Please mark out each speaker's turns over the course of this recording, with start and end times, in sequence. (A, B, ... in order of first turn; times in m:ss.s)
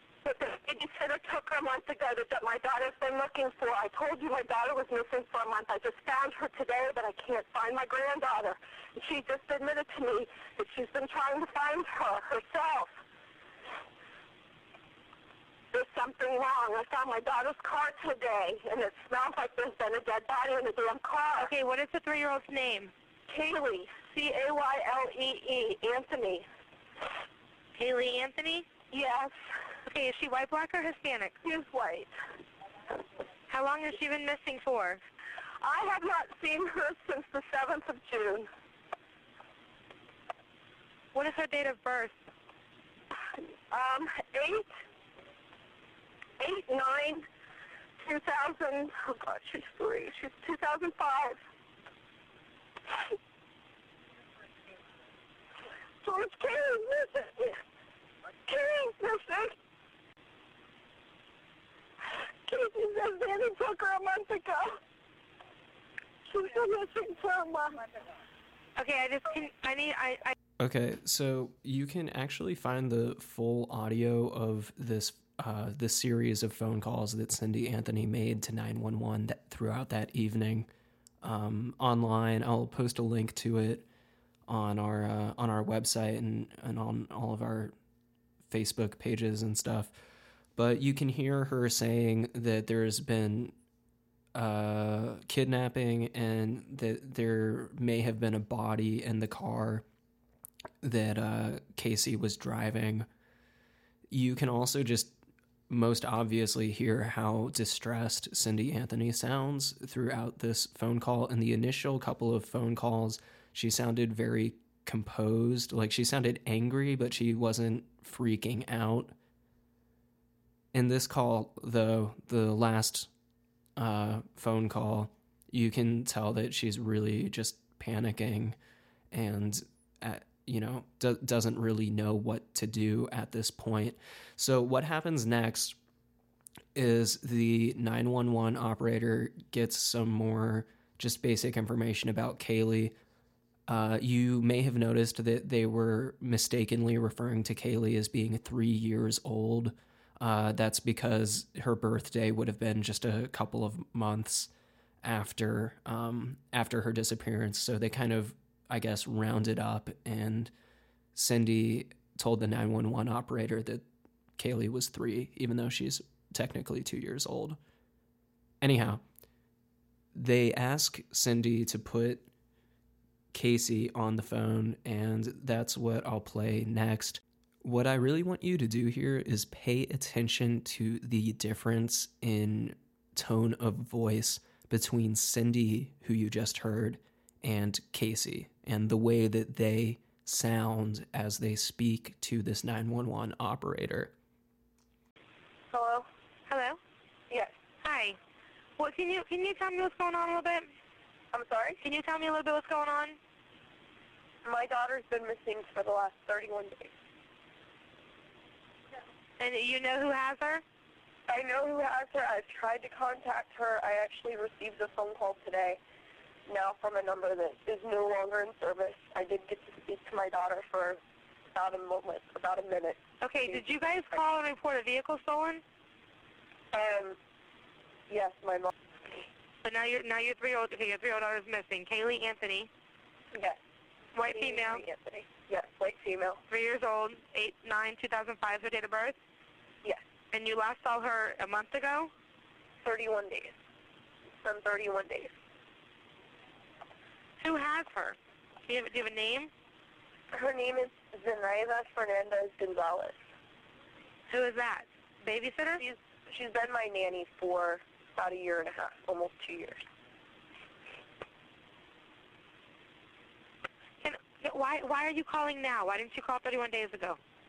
0:00.2-0:12.9 A
0:15.7-0:21.5 A
0:21.4-0:22.9 B
0:23.3-0:26.5 A
0:27.8-0:28.7 B
0:28.9-0:29.3 A
0:29.9-0:31.4 B
0:31.4-0:32.1 A
0:33.5-0:35.0 B
0:35.6-0:38.5 A
0:41.1-0:42.2 B
0:43.7-0:44.7 A
0:46.4-0:47.3 A
0:48.0-0:51.4 A
0:56.0-0:57.6 A
0:58.5-0:59.6 A
1:02.5-1:04.8 A
1:06.3-1:07.9 A
1:08.8-1:10.4 B
1:10.6-1:20.7 C
1:21.2-1:23.9 C
1:24.5-1:27.7 C
1:28.5-1:29.9 C
1:30.6-1:33.5 C
1:34.4-1:39.8 C
1:40.8-1:43.1 C
1:44.1-1:45.2 C
1:45.7-1:59.1 C
2:00.7-2:03.1 C
2:03.8-2:08.6 C
2:09.1-2:15.8 C
2:16.7-2:22.9 C
2:23.7-2:34.5 C
2:35.0-2:40.5 C
2:41.2-2:43.8 C
2:44.4-2:47.6 C
2:48.6-2:49.0 C
2:50.1-2:52.3 C
2:53.3-3:14.1 C
3:15.7-3:16.1 A
3:16.5-3:16.8 B
3:17.8-3:18.2 B
3:18.8-3:20.7 B
3:21.3-3:21.8 A
3:21.8-3:23.2 B
3:24.4-3:26.9 A
3:29.4-3:30.6 B
3:31.3-3:35.8 A
3:36.5-3:41.0 A
3:41.5-3:43.6 A
3:43.2-3:45.6 B
3:46.7-3:47.2 A
3:48.1-3:48.7 A
3:49.6-3:52.7 B
3:53.3-3:53.6 A
3:54.2-3:54.8 B
3:54.3-3:56.4 A
3:56.5-3:59.2 B
4:00.3-4:02.1 B
4:02.8-4:03.6 A
4:04.4-4:05.3 A
4:07.4-4:09.5 B
4:10.3-4:13.2 A
4:14.3-4:15.8 B
4:15.8-4:19.8 A
4:24.0-4:27.2 B